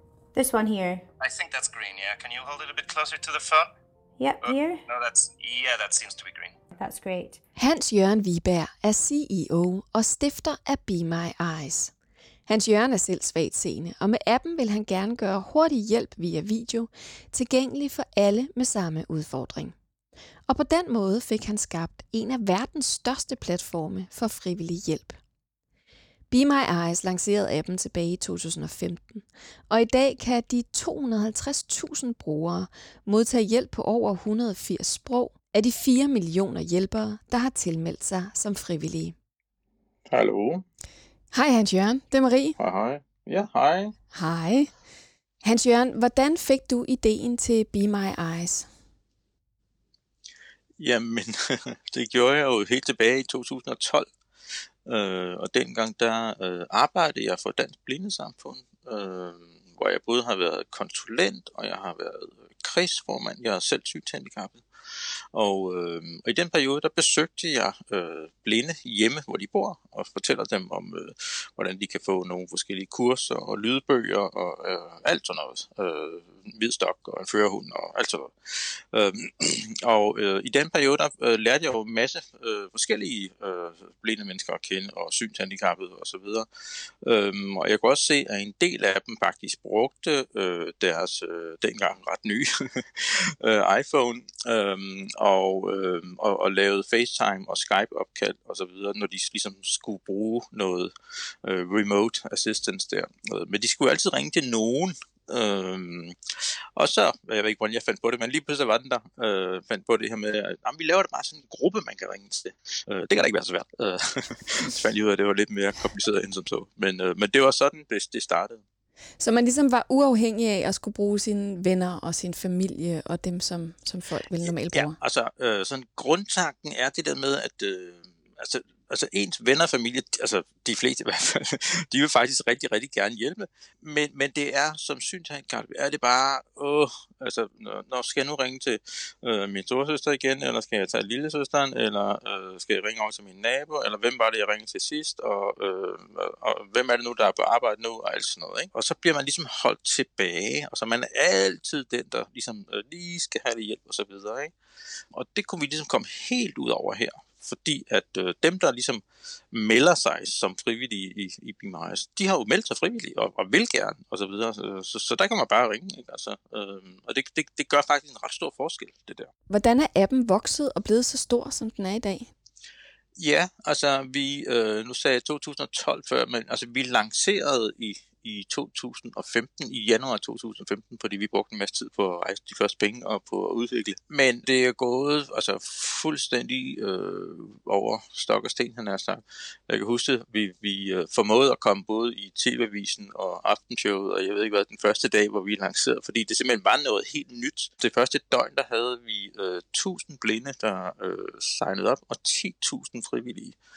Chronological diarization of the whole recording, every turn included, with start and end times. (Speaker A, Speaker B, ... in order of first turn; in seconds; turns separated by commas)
Speaker A: 0.3-1.1, Speaker B: 1.2-3.7, Speaker A: 4.2-4.8, Speaker B: 4.4-6.5, Speaker A: 6.8-7.4, Speaker C: 7.6-11.9, Speaker C: 12.5-19.7, Speaker C: 20.5-25.2, Speaker C: 26.3-39.1, Speaker D: 40.1-40.6, Speaker C: 41.3-42.5, Speaker D: 42.6-43.9, Speaker C: 44.1-44.7, Speaker C: 45.4-48.7, Speaker D: 50.8-54.1, Speaker D: 54.9-86.5, Speaker D: 87.0-100.9, Speaker D: 101.4-106.2, Speaker D: 106.8-118.6, Speaker C: 119.2-125.0, Speaker D: 124.4-154.5, Speaker D: 155.1-169.3, Speaker C: 169.5-172.3, Speaker D: 173.2-203.6